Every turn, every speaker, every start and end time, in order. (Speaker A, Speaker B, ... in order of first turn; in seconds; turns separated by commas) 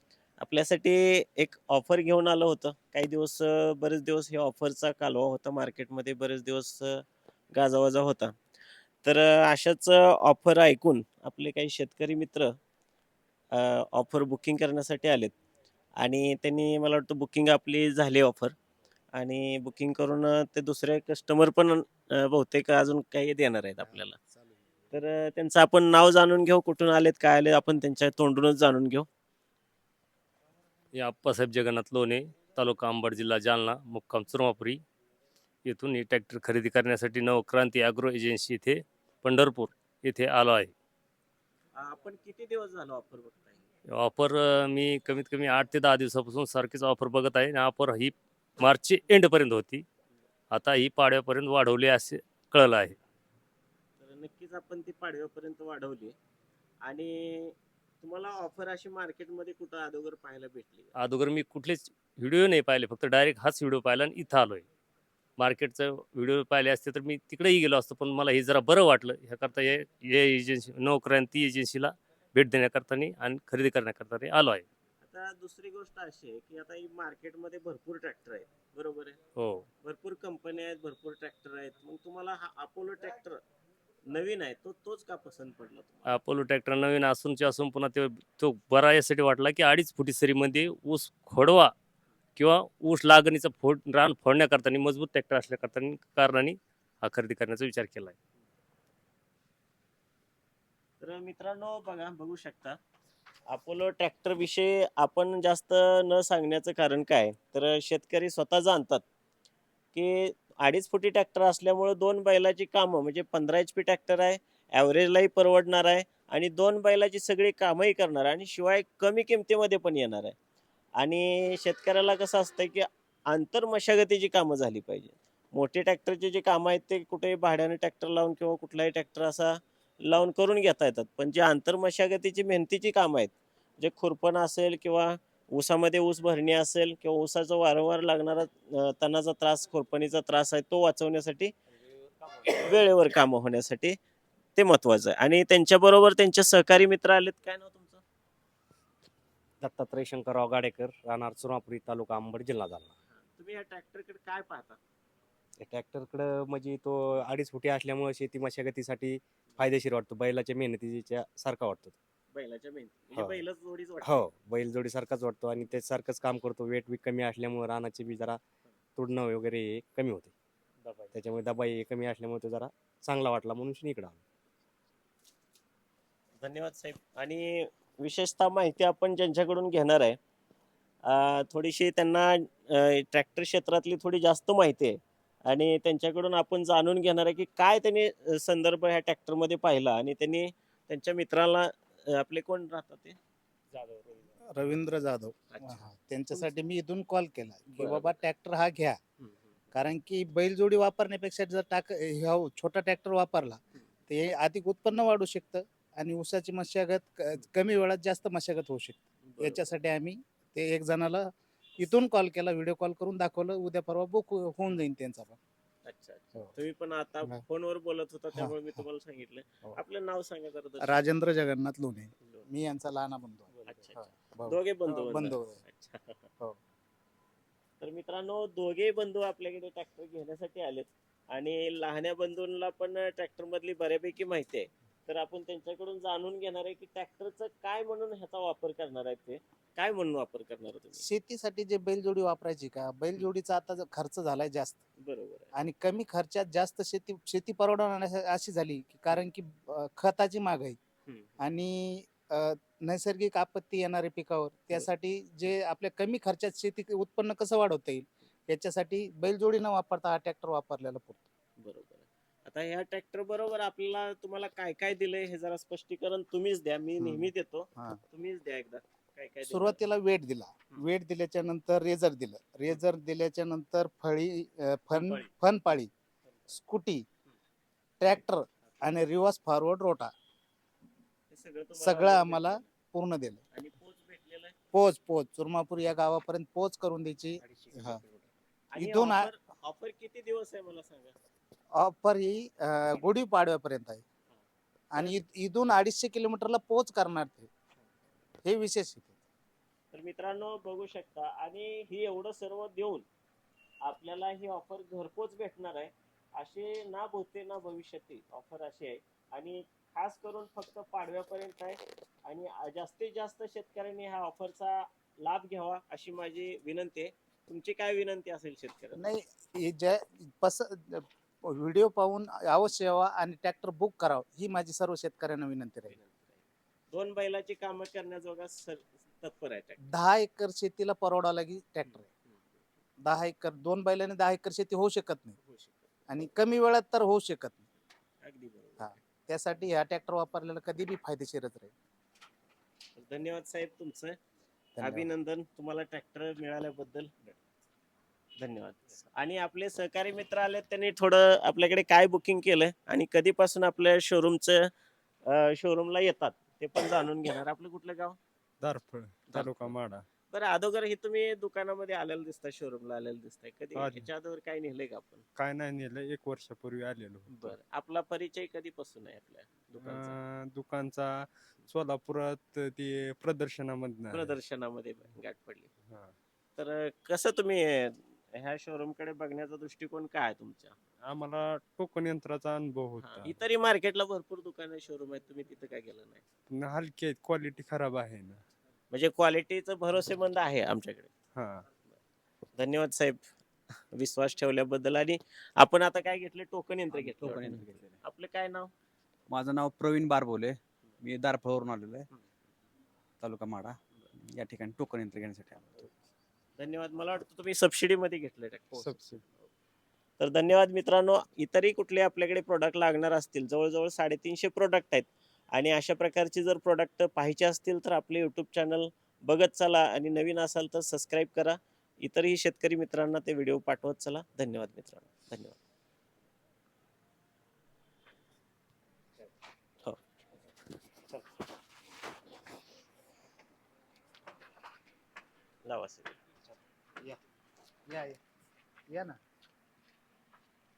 Speaker A: 0.4-8.4, Speaker A: 9.0-12.5, Speaker A: 13.5-15.3, Speaker A: 16.0-18.5, Speaker A: 19.1-24.1, Speaker B: 23.9-24.9, Speaker A: 24.9-29.1, Speaker C: 30.9-34.8, Speaker C: 35.6-40.7, Speaker A: 41.8-43.6, Speaker C: 44.0-49.8, Speaker C: 50.5-53.0, Speaker A: 54.0-56.1, Speaker A: 56.8-60.9, Speaker C: 61.0-64.6, Speaker C: 65.4-74.7, Speaker A: 75.0-79.2, Speaker C: 79.4-79.7, Speaker A: 79.8-83.4, Speaker A: 84.1-86.2, Speaker C: 86.1-91.7, Speaker C: 92.3-98.2, Speaker A: 101.0-102.8, Speaker A: 103.5-109.0, Speaker A: 109.9-120.3, Speaker A: 121.0-141.6, Speaker A: 142.1-144.0, Speaker A: 144.6-148.0, Speaker D: 149.6-152.9, Speaker A: 153.1-154.8, Speaker D: 155.6-162.0, Speaker A: 162.3-164.2, Speaker D: 163.1-163.4, Speaker D: 164.0-168.4, Speaker D: 168.9-170.3, Speaker D: 171.1-174.2, Speaker A: 176.4-180.2, Speaker A: 181.0-193.2, Speaker B: 194.4-199.0, Speaker A: 195.5-196.5, Speaker A: 197.7-198.2, Speaker B: 199.7-215.4, Speaker A: 209.3-209.7, Speaker A: 215.8-221.1, Speaker B: 220.8-225.6, Speaker A: 223.5-226.3, Speaker A: 227.8-241.0, Speaker B: 241.0-244.8, Speaker A: 245.0-245.5, Speaker B: 245.5-250.8, Speaker A: 251.1-251.4, Speaker B: 251.4-261.2, Speaker A: 261.6-269.8, Speaker B: 267.0-268.0, Speaker B: 269.4-275.9, Speaker A: 274.9-275.3, Speaker B: 276.5-277.0, Speaker B: 278.0-280.1, Speaker A: 281.3-282.7, Speaker B: 281.8-283.4, Speaker A: 283.5-284.5, Speaker B: 284.7-288.0, Speaker D: 287.9-288.2, Speaker A: 288.7-291.1, Speaker B: 288.8-289.3, Speaker B: 291.8-294.0, Speaker B: 294.9-297.5, Speaker B: 298.4-299.2, Speaker A: 299.9-303.1, Speaker A: 303.8-319.1, Speaker B: 318.9-325.9, Speaker A: 325.9-329.8, Speaker B: 329.8-332.1, Speaker A: 331.8-332.4, Speaker B: 333.0-335.4, Speaker A: 335.4-335.9, Speaker B: 336.1-337.6, Speaker A: 338.2-338.9, Speaker B: 338.8-341.7, Speaker A: 342.9-344.2, Speaker B: 344.8-345.1, Speaker A: 344.8-347.4, Speaker A: 348.4-354.7, Speaker A: 355.2-358.2, Speaker E: 358.6-360.1, Speaker A: 359.3-359.7, Speaker A: 360.3-365.2, Speaker E: 363.8-364.1, Speaker E: 365.4-367.6, Speaker A: 367.3-370.1, Speaker E: 369.8-374.3, Speaker A: 374.1-375.7, Speaker E: 375.9-376.1, Speaker A: 376.6-380.7, Speaker E: 381.0-383.4, Speaker A: 383.0-386.2, Speaker E: 386.5-388.4, Speaker A: 388.9-391.1, Speaker E: 391.3-391.6, Speaker A: 392.6-393.2, Speaker A: 393.9-398.7, Speaker F: 396.9-398.0, Speaker F: 399.3-402.1, Speaker F: 403.2-403.8, Speaker F: 404.3-405.9, Speaker A: 406.6-409.0, Speaker E: 408.8-409.2, Speaker A: 410.2-425.6, Speaker A: 435.6-436.2, Speaker B: 437.9-438.2, Speaker B: 438.9-439.2